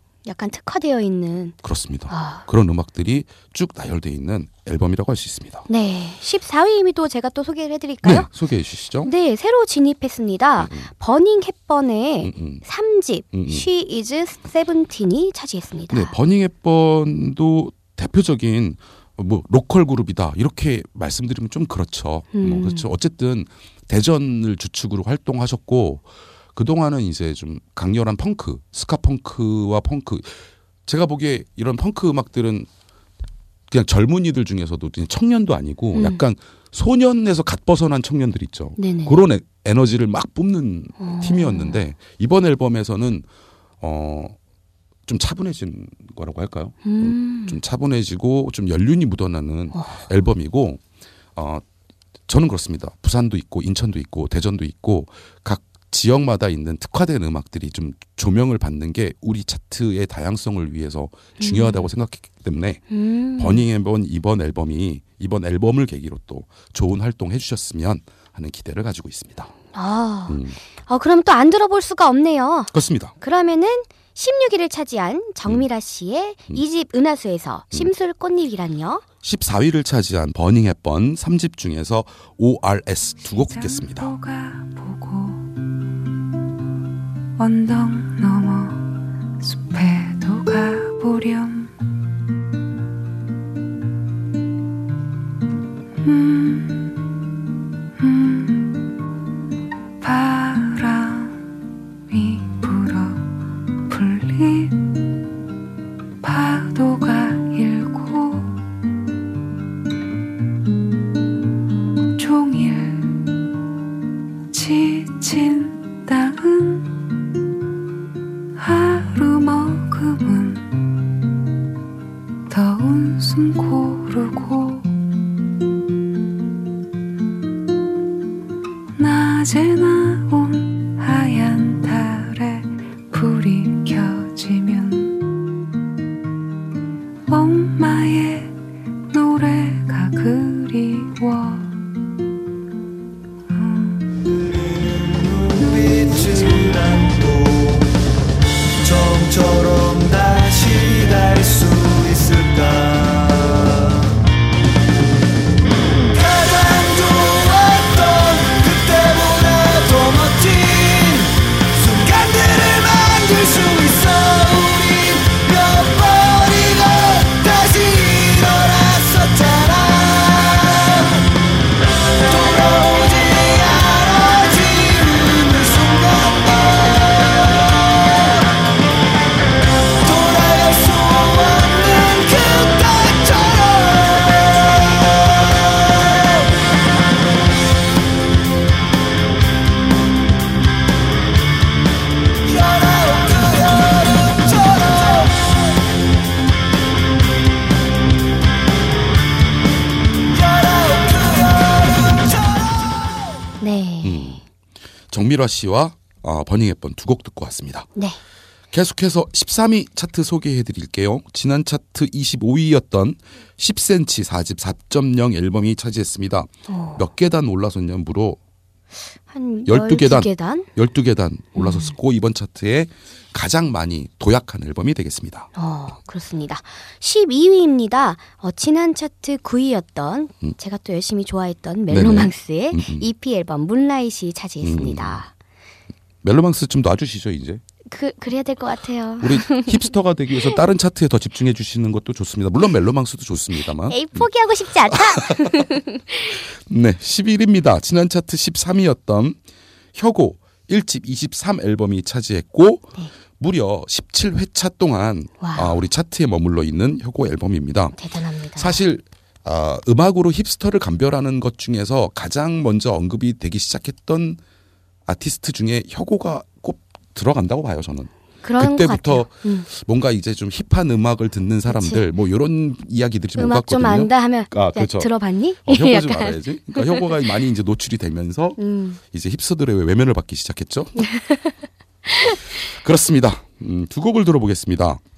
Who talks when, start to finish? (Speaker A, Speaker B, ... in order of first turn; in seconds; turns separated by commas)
Speaker A: 0.3-1.6, Speaker B: 1.6-5.7, Speaker A: 2.1-2.4, Speaker A: 5.7-8.3, Speaker B: 8.0-9.1, Speaker A: 9.1-16.1, Speaker B: 10.6-10.9, Speaker B: 12.2-12.6, Speaker B: 13.3-13.7, Speaker B: 15.9-32.7, Speaker A: 22.3-22.9, Speaker B: 33.7-43.3, Speaker A: 35.9-36.2, Speaker A: 38.8-39.2, Speaker A: 41.0-41.8, Speaker B: 43.8-44.4, Speaker B: 45.1-50.8, Speaker A: 46.8-47.6, Speaker A: 49.7-50.0, Speaker B: 51.4-51.6, Speaker B: 52.3-62.8, Speaker A: 61.4-61.9, Speaker A: 62.9-63.6, Speaker B: 63.4-69.5, Speaker A: 69.7-79.0, Speaker B: 70.3-70.6, Speaker B: 72.7-73.1, Speaker B: 79.2-84.1, Speaker C: 83.3-85.5, Speaker C: 87.4-91.7, Speaker C: 96.0-97.1, Speaker C: 98.0-98.9, Speaker C: 100.0-101.4, Speaker C: 102.1-103.3, Speaker C: 103.9-105.1, Speaker C: 106.2-108.6, Speaker C: 112.1-113.4, Speaker C: 114.5-117.0, Speaker C: 118.5-120.8, Speaker C: 122.5-125.0, Speaker C: 128.9-135.3, Speaker C: 137.3-141.8, Speaker C: 143.5-144.1, Speaker D: 144.8-147.9, Speaker D: 148.8-154.1, Speaker D: 156.1-171.2, Speaker D: 172.3-177.0, Speaker D: 180.0-184.2, Speaker D: 192.5-193.8, Speaker D: 200.6-201.3, Speaker A: 203.6-204.4, Speaker B: 204.0-204.4, Speaker B: 205.1-207.9, Speaker B: 208.7-218.4, Speaker A: 216.7-217.0, Speaker A: 219.3-220.7, Speaker B: 219.7-225.5, Speaker A: 221.6-221.9, Speaker A: 225.6-235.3, Speaker B: 231.9-233.1, Speaker B: 234.6-235.2, Speaker B: 236.2-237.6, Speaker A: 237.9-240.6, Speaker B: 239.2-244.3, Speaker A: 243.8-246.3, Speaker B: 244.9-245.7, Speaker B: 246.7-249.4, Speaker B: 249.9-258.0, Speaker A: 255.4-255.8, Speaker A: 258.0-258.8, Speaker B: 258.6-264.4, Speaker B: 265.1-275.1, Speaker A: 268.4-269.7, Speaker A: 271.7-272.1, Speaker A: 273.4-277.1, Speaker B: 275.6-278.6, Speaker A: 278.6-279.0, Speaker B: 279.1-281.1, Speaker A: 281.0-281.5, Speaker B: 282.6-285.0